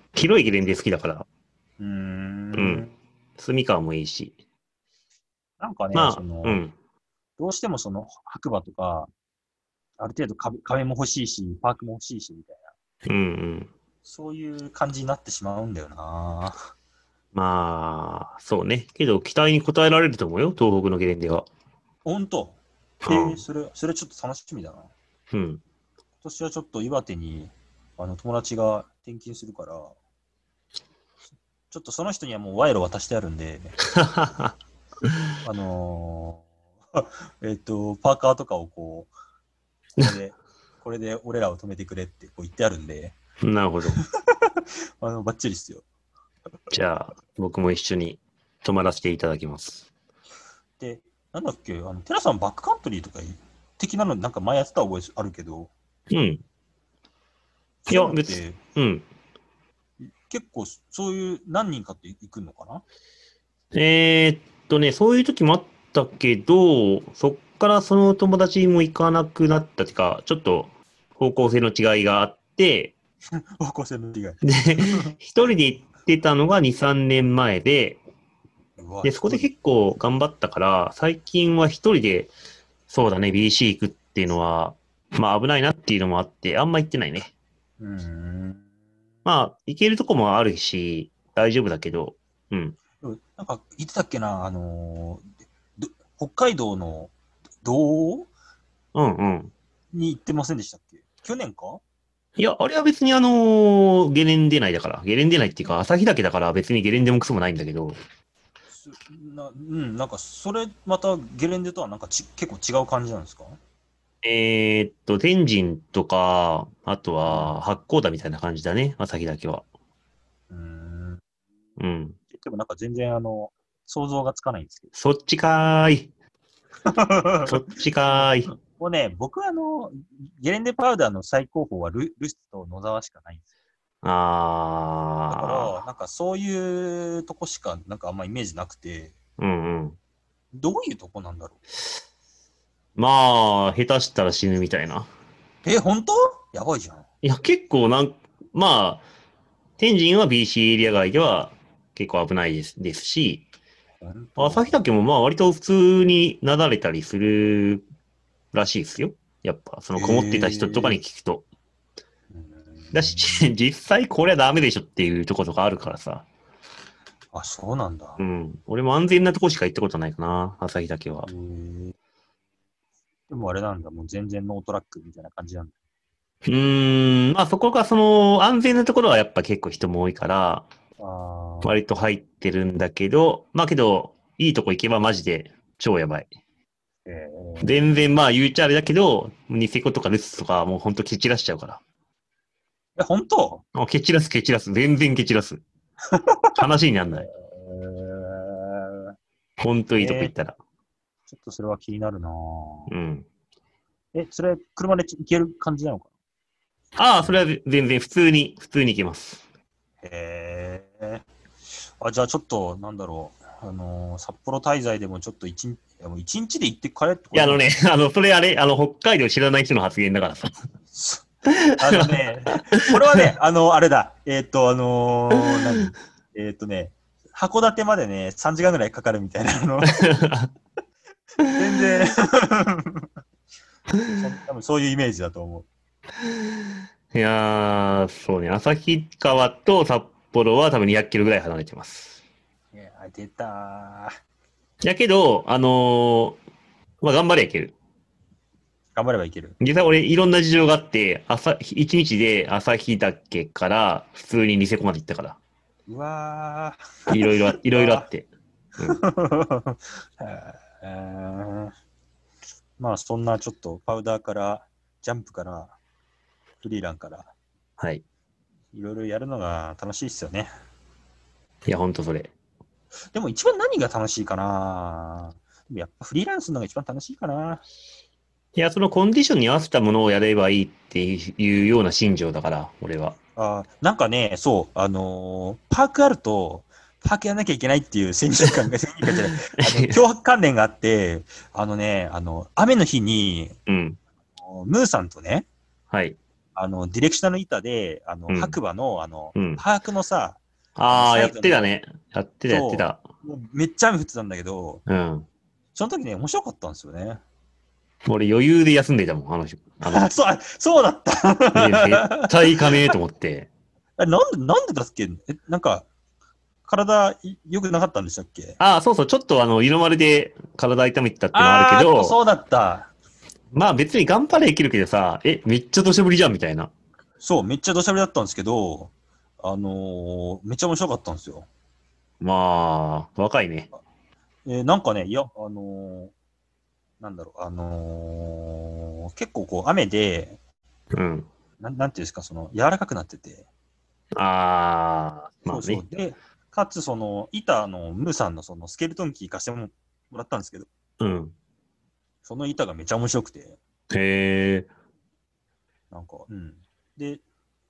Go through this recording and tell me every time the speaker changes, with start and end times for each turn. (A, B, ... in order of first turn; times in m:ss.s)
0:00.2-0:01.3 A
0:01.8-0:02.9 B
0:02.5-0:02.8 A
0:03.4-0:04.4 A
0:05.6-0:06.6 B
0:05.9-0:06.8 A
0:07.4-0:09.1 B
0:10.0-0:12.7 B
0:13.1-0:13.7 A
0:14.0-0:16.6 B
0:17.3-0:21.5 A
0:22.0-0:24.9 B
0:23.0-0:23.4 A
0:25.3-0:25.6 A
0:26.2-0:30.0 B
0:31.7-0:33.8 B
0:34.0-0:34.5 A
0:35.4-0:39.1 B
0:40.0-0:43.2 B
0:43.4-0:44.0 A
0:44.0-0:44.5 B
0:45.0-0:45.8 B
0:46.7-0:49.9 A
0:50.8-0:55.7 B
0:56.1-0:56.4 A
0:57.8-0:58.6 B
0:57.9-0:59.1 A
1:00.0-1:02.8 B
1:03.7-1:13.0 A
1:13.3-1:15.1 B
1:14.5-1:18.0 A
1:18.8-1:19.5 B
1:19.0-1:22.3 A
1:22.9-1:27.3 A
1:27.8-1:28.7 B
1:29.2-1:32.8 A
1:33.0-1:38.3 B
1:39.0-1:39.5 A
1:39.9-1:41.8 B
1:42.4-1:48.0 A
1:48.7-1:53.6 B
1:54.2-1:59.6 A
1:57.3-1:57.6 B
2:00.5-2:01.2 B
2:01.8-2:02.2 A
2:02.3-2:04.9 B
2:04.9-2:06.1 A
2:06.9-2:13.4 B
2:07.4-2:08.5 A
2:14.0-2:15.8 A
2:15.3-2:19.2 B
2:19.4-2:20.0 A
2:20.5-2:21.6 B
2:23.0-2:25.1 A
2:25.6-2:27.1 B
2:27.2-2:29.0 A
2:29.8-2:33.4 A
2:34.0-2:34.8 B
2:34.4-2:37.8 A
2:38.5-2:41.4 A
2:39.9-2:41.0 B
2:42.3-2:43.5 B
2:42.9-2:46.3 A
2:47.3-2:48.2 B
2:48.2-2:51.3 A
2:51.2-2:51.9 B
2:53.3-2:55.7 B
2:56.5-3:00.7 A
3:01.0-3:01.7 B
3:01.6-3:06.3 A
3:07.1-3:08.0 B
3:07.6-3:11.8 A
3:13.0-3:13.6 B
3:13.8-3:15.6 A
3:16.1-3:16.6 B
3:16.6-3:17.3 A
3:17.1-3:19.1 B
3:19.6-3:20.6 A
3:20.0-3:20.3 B
3:21.3-3:22.9 B
3:22.9-3:23.3 A
3:24.1-3:26.1 B
3:27.0-3:29.4 A
3:27.2-3:27.5 B
3:30.0-3:31.2 B
3:32.0-3:37.6 B
3:37.3-3:40.6 A
3:40.9-3:41.2 B
3:41.6-3:42.0 A
3:41.8-3:50.1 B
3:42.7-3:43.2 A
3:50.0-3:50.5 A
3:51.6-3:53.1 B
3:54.1-3:55.7 B
3:57.1-4:02.2 A
4:02.7-4:04.1 B
4:04.8-4:06.4 A
4:07.0-4:07.8 A
4:09.0-4:09.6 B
4:09.6-4:15.4 A
4:15.9-4:18.1 B
4:17.1-4:19.0 A
4:18.9-4:21.7 B
4:22.8-4:25.8 B
4:26.6-4:27.3 B
4:27.8-4:28.0 A
4:28.7-4:30.5 B
4:31.7-4:32.3 A
4:33.1-4:37.6 B
4:38.6-4:43.2 A
4:43.4-4:53.6 B
4:49.5-4:50.0 A
4:53.7-4:54.0 A
4:54.4-4:55.5 B
4:55.9-4:56.2 A
4:56.6-5:01.7 B
4:58.3-4:58.6 A
4:59.4-4:59.6 A
5:00.8-5:03.0 A
5:02.5-5:04.8 B
5:04.9-5:05.3 A
5:05.8-5:07.2 B
5:08.1-5:10.1 A
5:09.9-5:12.4 B
5:11.6-5:13.5 A
5:14.0-5:15.9 B
5:16.7-5:18.6 B
5:18.6-5:22.2 A
5:21.3-5:22.9 B
5:23.5-5:26.7 A
5:27.2-5:31.5 B
5:32.2-5:33.7 A
5:34.5-5:36.1 B
5:37.0-5:40.4 B
5:41.0-5:41.3 A
5:41.6-5:43.5 B
5:44.2-5:45.8 A
5:45.5-5:50.7 B
5:51.0-5:51.4 A
5:52.2-5:53.6 B
5:53.9-5:54.7 A
5:55.9-5:57.2 B